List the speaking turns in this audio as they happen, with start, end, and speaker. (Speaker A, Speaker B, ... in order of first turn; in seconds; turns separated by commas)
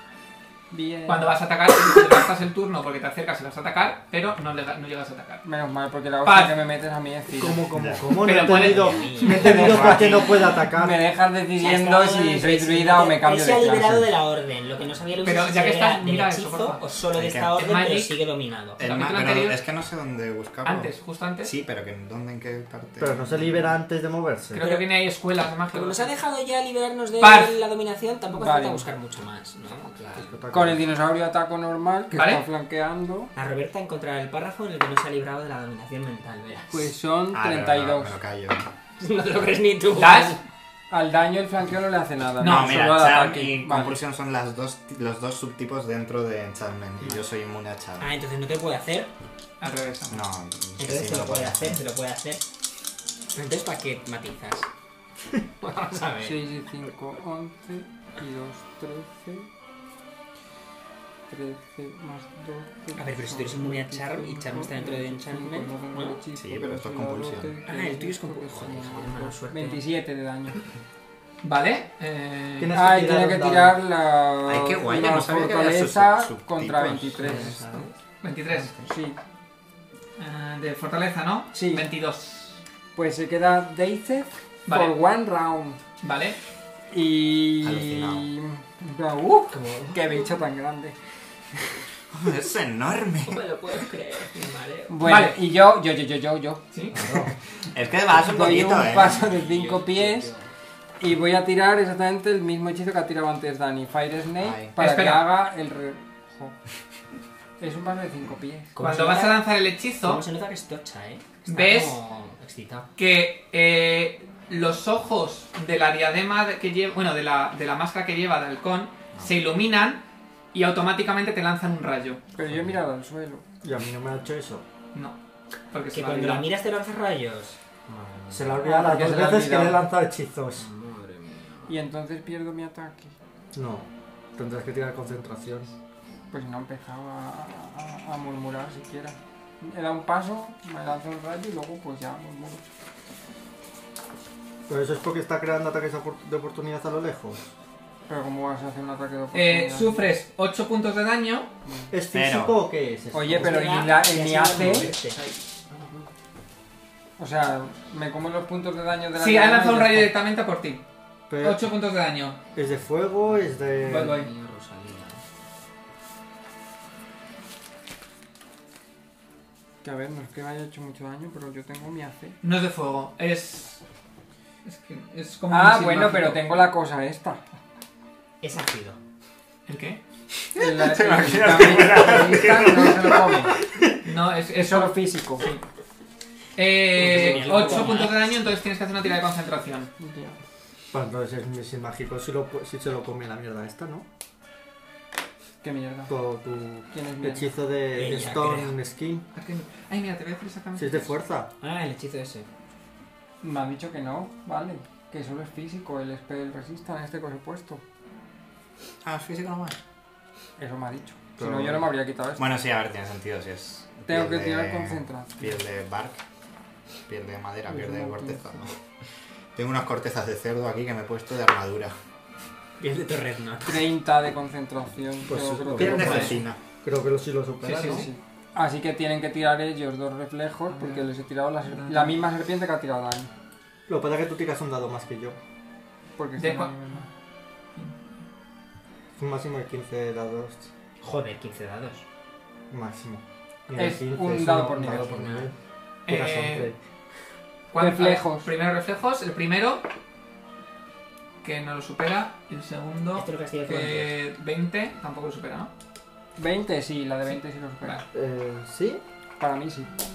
Speaker A: 0.7-1.4, Speaker B: 1.1-5.4, Speaker A: 5.4-7.7, Speaker B: 6.2-6.5, Speaker C: 7.3-11.0, Speaker D: 7.7-8.1, Speaker B: 8.1-9.8, Speaker E: 8.4-9.8, Speaker A: 9.2-14.1, Speaker D: 9.4-10.4, Speaker E: 11.6-18.8, Speaker B: 15.2-16.8, Speaker D: 17.1-17.6, Speaker B: 17.6-18.1, Speaker B: 18.8-19.6, Speaker D: 18.8-23.7, Speaker B: 20.6-21.5, Speaker C: 23.0-24.6, Speaker B: 24.5-26.1, Speaker E: 24.6-24.9, Speaker E: 25.7-30.4, Speaker B: 27.2-27.6, Speaker A: 28.3-28.9, Speaker C: 30.1-30.9, Speaker A: 30.5-33.3, Speaker B: 32.1-32.4, Speaker E: 33.3-36.9, Speaker A: 36.7-38.2, Speaker D: 37.3-38.7, Speaker E: 39.0-40.4, Speaker B: 39.9-40.4, Speaker A: 40.9-44.0, Speaker B: 42.4-42.8, Speaker D: 42.4-48.1, Speaker E: 48.0-49.1, Speaker B: 49.6-50.2, Speaker D: 50.1-51.8, Speaker E: 50.8-52.4, Speaker E: 53.3-54.7, Speaker E: 55.6-56.4, Speaker A: 56.2-59.5, Speaker A: 61.3-70.6, Speaker E: 62.9-66.1, Speaker D: 66.3-67.5, Speaker E: 67.7-69.8, Speaker B: 71.4-72.8, Speaker C: 72.6-73.8, Speaker A: 72.7-77.6, Speaker D: 74.5-77.6, Speaker E: 77.2-77.9, Speaker B: 78.2-78.7, Speaker A: 78.8-79.2, Speaker B: 80.2-82.6, Speaker A: 81.5-81.9, Speaker A: 82.9-85.8, Speaker B: 84.7-85.0, Speaker B: 86.0-86.4, Speaker A: 86.9-90.9, Speaker D: 87.6-88.3, Speaker E: 89.5-90.3, Speaker D: 92.1-93.4, Speaker E: 93.2-95.0, Speaker A: 94.9-96.6, Speaker B: 95.0-95.4, Speaker C: 96.9-97.3, Speaker D: 96.9-99.3, Speaker A: 98.2-100.3, Speaker E: 98.7-100.5, Speaker A: 101.0-106.5, Speaker D: 104.4-104.7, Speaker B: 104.8-105.3, Speaker A: 107.6-108.7, Speaker E: 108.7-109.5, Speaker B: 108.8-110.2, Speaker E: 110.0-112.9, Speaker B: 111.5-112.0, Speaker B: 113.0-120.0, Speaker B: 120.5-122.2, Speaker A: 122.3-123.4, Speaker D: 122.5-122.7, Speaker C: 123.6-124.6, Speaker B: 125.7-126.5, Speaker E: 125.9-128.9, Speaker C: 128.3-130.7, Speaker A: 128.6-129.8, Speaker E: 130.6-131.7, Speaker A: 131.7-133.1, Speaker C: 133.5-135.7, Speaker A: 136.3-142.7, Speaker C: 144.7-147.4, Speaker A: 148.1-150.0, Speaker B: 149.3-151.5, Speaker A: 151.7-151.9, Speaker C: 151.9-153.8, Speaker D: 152.1-152.6, Speaker A: 153.1-154.9, Speaker E: 153.3-156.0, Speaker A: 157.2-160.1, Speaker B: 159.2-160.8, Speaker C: 161.3-161.6, Speaker B: 161.4-162.4, Speaker C: 162.5-164.2, Speaker E: 163.7-165.2, Speaker B: 163.9-164.3, Speaker A: 169.8-172.4, Speaker B: 172.4-173.8, Speaker B: 174.6-176.4, Speaker A: 175.5-177.4, Speaker E: 178.4-179.0, Speaker B: 179.7-180.0, Speaker D: 180.5-183.5, Speaker A: 180.5-183.6, Speaker B: 184.0-185.6, Speaker A: 184.5-185.5, Speaker B: 186.6-189.9, Speaker E: 186.9-188.2, Speaker A: 187.2-187.9, Speaker A: 190.0-190.4, Speaker C: 190.9-194.1, Speaker A: 195.6-196.2, Speaker C: 196.1-199.2, Speaker A: 196.9-197.5, Speaker E: 197.9-198.8, Speaker B: 199.3-201.2, Speaker C: 200.8-201.5, Speaker E: 201.6-202.5, Speaker A: 203.4-207.8, Speaker D: 209.0-209.8, Speaker A: 210.6-212.4, Speaker C: 211.4-211.9, Speaker D: 212.4-216.2, Speaker A: 214.1-215.6, Speaker D: 217.1-218.8, Speaker A: 217.7-218.5, Speaker D: 219.5-221.9, Speaker E: 222.8-223.8, Speaker A: 223.6-226.3, Speaker C: 225.3-228.1, Speaker D: 225.7-226.6, Speaker B: 226.0-226.4, Speaker B: 227.6-228.1, Speaker A: 227.8-233.3, Speaker B: 231.7-232.2, Speaker C: 233.9-235.4, Speaker A: 236.2-237.1, Speaker B: 236.4-237.1, Speaker C: 239.2-240.7, Speaker E: 241.0-242.0, Speaker C: 242.7-245.6, Speaker A: 243.7-245.1, Speaker E: 244.9-245.5, Speaker B: 246.1-246.7, Speaker C: 246.1-246.8, Speaker B: 247.7-249.8, Speaker A: 247.7-248.5, Speaker B: 251.4-255.7, Speaker E: 253.1-254.1, Speaker A: 256.4-258.0, Speaker B: 257.3-258.0, Speaker C: 258.1-259.0, Speaker A: 259.4-259.9